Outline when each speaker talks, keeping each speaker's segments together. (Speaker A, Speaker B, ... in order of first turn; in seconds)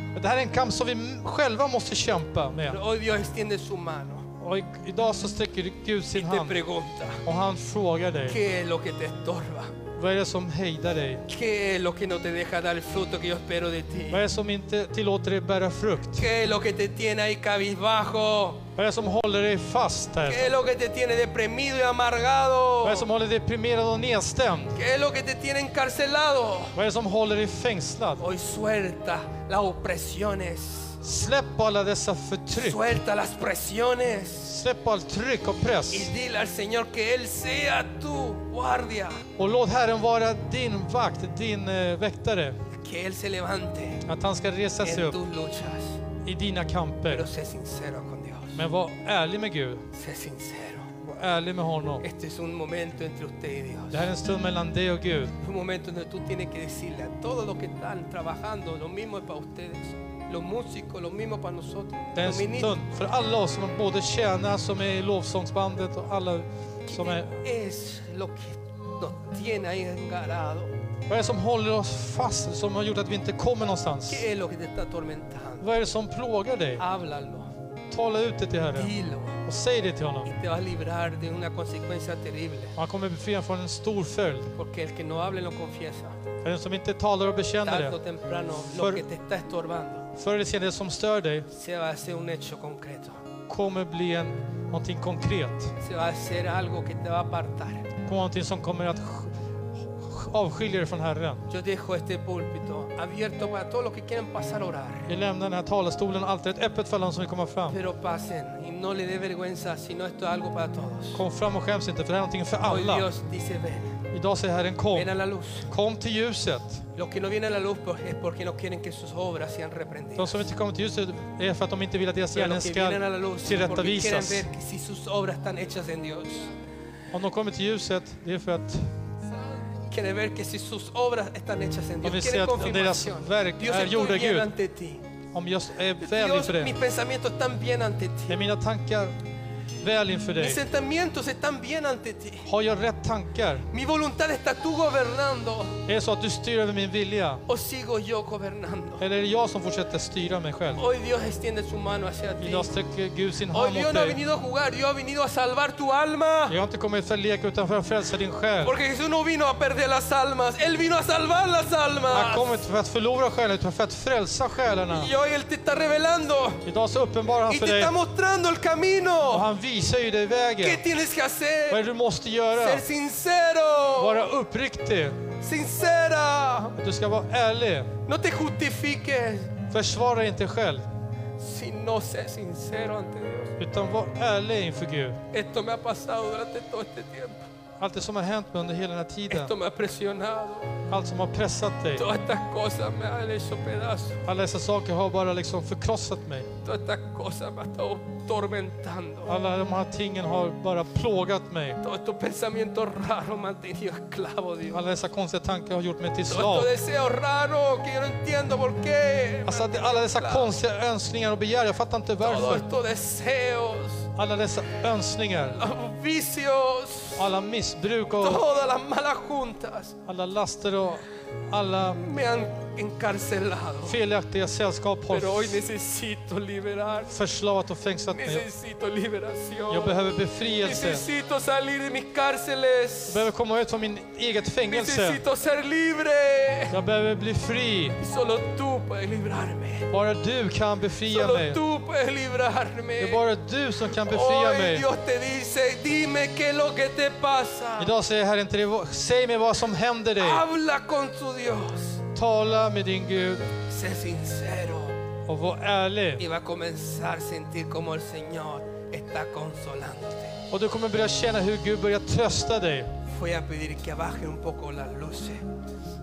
Speaker A: 0.1-2.8, 4.4-6.6, 7.2-8.4, 10.0-11.3, 14.1-16.3, 18.8-20.5, 22.8-24.8, 26.8-28.2, 31.0-33.0, 34.4-36.1, 39.4-42.6, 44.0-45.2, 46.2-47.3, 48.5-49.9, 51.0-52.0, 53.9-55.4, 62.1-67.4, 71.1-74.2, 75.6-76.8, 77.9-78.9, 79.4-80.3, 82.8-84.5, 86.4-88.0, 88.6-89.0, 90.2-91.5, 93.5-95.7, 98.0-101.5, 105.1-107.8, 111.1-113.1, 114.1-115.1, 115.7-116.8, 120.2-124.5, 127.1-128.9, 132.0-134.5, 135.3-136.8, 138.3-139.2, 139.8-140.6, 142.5-143.7, 145.9-147.4, 149.0-150.8, 152.4-154.2, 156.5-158.8, 162.1-165.1, 166.6-167.9, 169.3-170.9, 171.7-172.8, 174.0-175.2, 176.8-177.9, 179.7-180.9, 183.6-185.2, 187.8-189.5, 190.9-192.1, 194.2-196.5, 199.3-201.8, 204.7-206.7, 209.5-212.7, 214.2-215.6, 217.2-218.4, 220.1-222.0, 223.8-225.6, 227.1-228.5, 229.7-231.0, 233.1-235.2, 236.7-238.0, 239.9-241.6, 243.0-244.9, 247.8-250.4, 252.1-253.5, 255.3-256.2, 260.5-262.9
Speaker B: 2.7-4.3, 6.1-7.2, 8.3-9.8, 11.3-14.2, 16.2-18.7, 20.2-23.1, 24.8-26.8, 28.2-31.0, 32.5-34.5, 35.9-39.2, 42.7-44.0, 44.8-46.0, 47.1-48.6, 49.9-50.9, 52.0-54.1, 55.4-62.8, 66.9-70.8, 74.1-75.7, 76.8-77.5, 78.8-79.4, 80.2-82.8, 84.5-86.2, 87.7-90.1, 91.5-93.2, 95.8-97.9, 101.5-105.1, 107.7-111.2, 112.6-114.0, 114.9-115.7, 116.9-120.5, 122.3-126.5, 129.9-135.0, 136.0-138.4, 140.4-142.5, 143.7-145.8, 147.5-149.0, 150.8-152.7, 153.5-156.6, 158.6-162.6, 164.9-166.6, 167.5-169.5, 170.6-171.8, 172.5-174.3, 175.4-176.8, 178.1-179.6, 181.4-183.6, 185.3-187.4, 189.3-190.8, 192.0-194.2, 196.6-199.3, 201.8-204.8, 206.3-210.6, 212.2-214.1, 215.5-217.3, 218.2-220.0, 221.9-224.0, 225.1-227.2, 228.1-230.0, 230.6-233.3, 234.7-236.8, 238.0-239.9, 241.1-243.2, 243.9-247.9, 250.2-252.0, 253.7-255.0, 256.2-260.4, 263.1-265.4